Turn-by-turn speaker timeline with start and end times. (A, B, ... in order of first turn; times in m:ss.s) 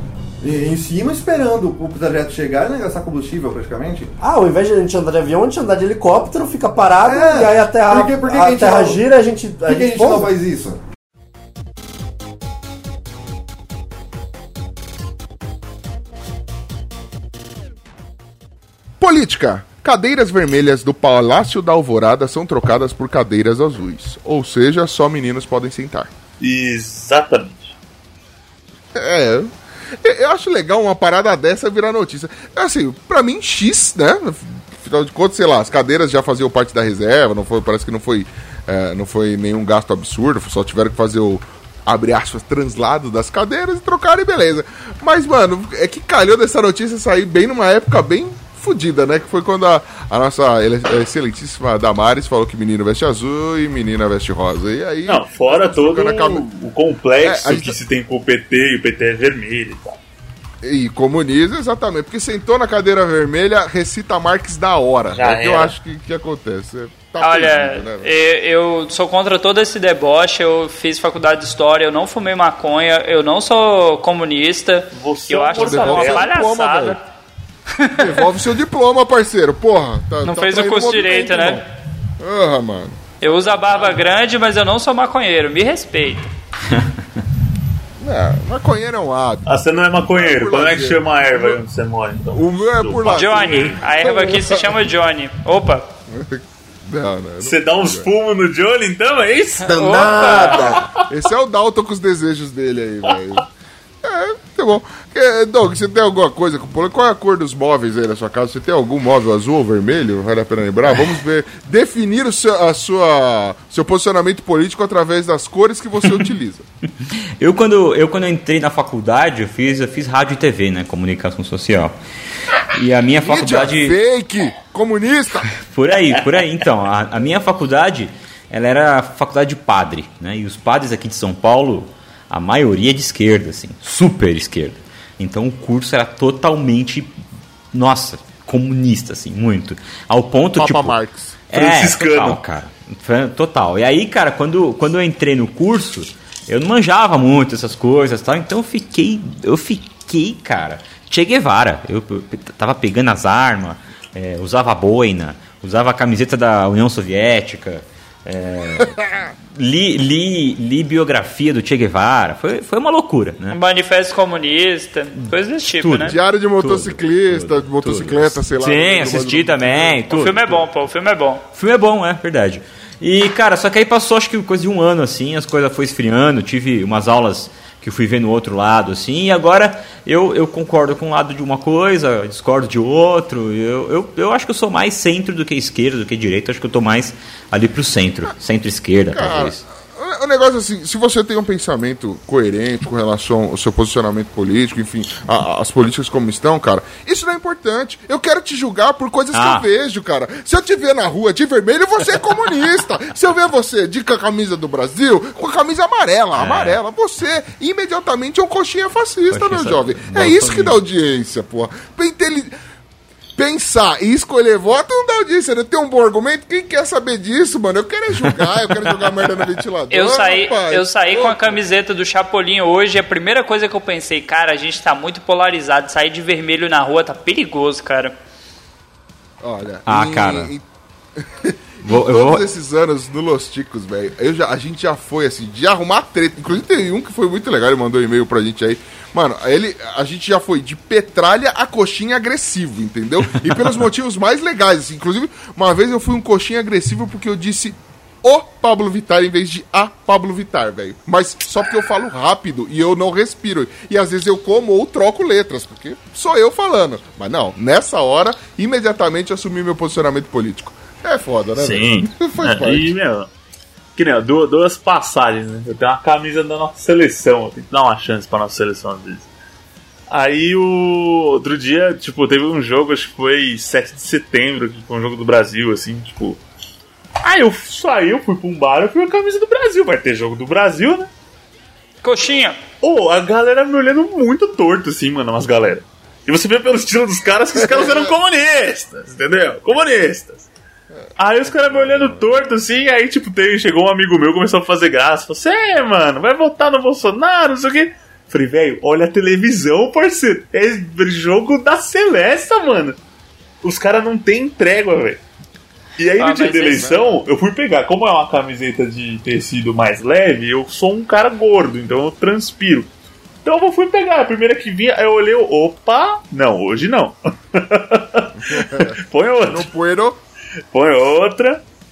0:00.4-0:04.1 A
0:04.2-0:10.3 B
0:07.0-0:09.0 A
0:09.7-0:10.8 A
0:19.0-0:26.1 C
0:26.4-0:27.7 D
0:29.0-0:56.5 C
0:55.1-1:00.0 D
0:57.2-0:57.8 C
1:00.6-1:08.1 C
1:05.2-1:05.7 D
1:07.2-1:17.0 E
1:14.9-1:16.3 D
1:15.6-1:17.0 C
1:17.8-1:18.0 E
1:18.0-1:21.6 C
1:20.2-1:21.6 E
1:22.2-1:24.0 C
1:23.2-1:26.3 E
1:28.0-1:29.5 C
1:29.5-1:33.8 D
1:30.0-1:31.6 C
1:32.3-1:34.8 C
1:33.1-1:35.9 E
1:36.1-1:38.1 C
1:37.4-1:41.0 D
1:39.6-1:43.5 C
1:39.8-1:40.7 E
1:44.0-1:56.6 C
1:57.0-2:01.9 F
2:02.8-2:04.0 F
2:03.2-2:05.5 C
2:05.5-2:17.2 F
2:17.7-2:21.0 F
2:20.6-2:21.4 C
2:21.5-2:39.0 F
2:21.5-2:22.4 D
2:38.8-2:39.1 C
2:39.5-2:43.6 F
2:43.5-2:46.2 E
2:45.8-2:50.6 F
2:46.0-2:50.0 C
2:50.1-2:51.4 E
2:51.5-3:09.6 F
3:09.1-3:32.5 C
3:19.3-3:19.6 F
3:26.4-3:26.8 F
3:29.3-3:30.8 F
3:33.4-3:41.6 C
3:39.9-3:48.1 E
3:49.4-3:50.6 C
3:49.9-3:50.5 F
3:51.2-4:23.0 C
3:51.8-3:52.4 F
4:21.6-4:23.3 D
4:24.0-4:29.3 D
4:30.1-4:36.4 D
4:37.2-4:41.1 D
4:42.0-4:42.6 E
4:42.8-4:50.5 D
4:51.2-5:03.0 D
4:51.6-4:52.4 C
5:03.6-5:05.2 D
5:06.0-5:12.9 D
5:06.2-5:07.1 E
5:13.4-5:19.7 D
5:18.4-5:20.2 C
5:20.7-5:21.6 D